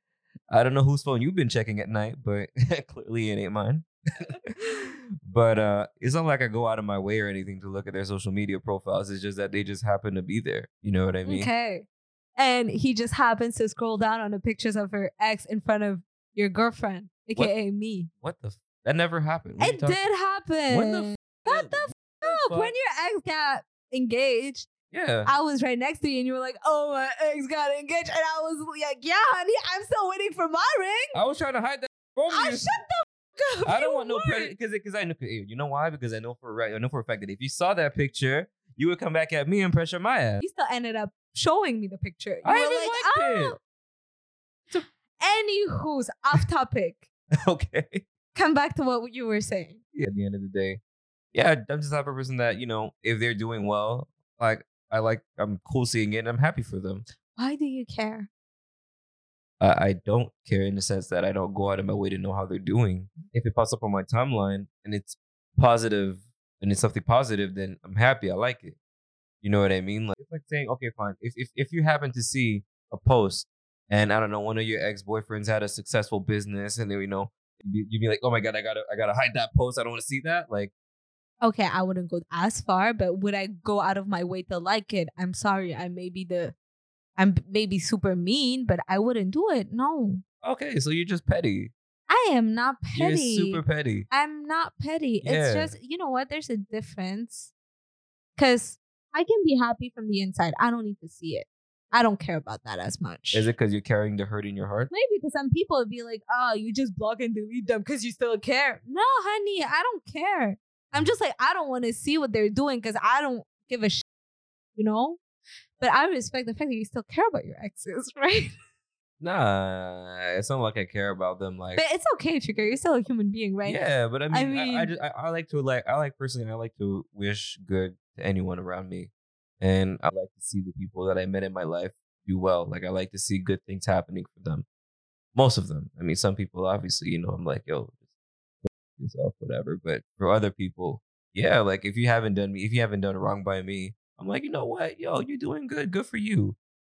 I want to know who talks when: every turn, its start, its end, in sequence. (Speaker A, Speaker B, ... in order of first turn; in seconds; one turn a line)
Speaker A: 0.5-11.5
Speaker B: 11.2-18.1
Speaker A: 18.2-20.0
Speaker B: 19.6-24.7
Speaker A: 20.7-22.7
Speaker A: 24.9-25.3
Speaker B: 25.2-31.2
Speaker A: 31.1-32.8
Speaker B: 32.3-34.5
Speaker A: 33.6-40.4
Speaker B: 40.4-43.6
Speaker A: 42.4-43.6
Speaker B: 44.7-47.0
Speaker A: 47.4-48.0
Speaker B: 48.3-49.8
Speaker A: 49.9-50.8
Speaker A: 51.3-57.0
Speaker B: 57.3-58.3
Speaker A: 59.6-68.8
Speaker A: 69.4-80.7
Speaker B: 81.4-86.5
Speaker B: 87.2-90.2
Speaker A: 90.4-91.7
Speaker B: 92.1-97.5
Speaker A: 92.9-94.1
Speaker A: 95.2-95.7
Speaker B: 98.3-103.5
Speaker A: 103.3-104.9
Speaker B: 104.9-114.0
Speaker B: 114.7-115.2
Speaker B: 115.8-118.5
Speaker A: 119.2-121.8
Speaker B: 121.8-124.9
Speaker A: 123.6-134.6
Speaker A: 135.3-138.0
Speaker A: 138.6-146.6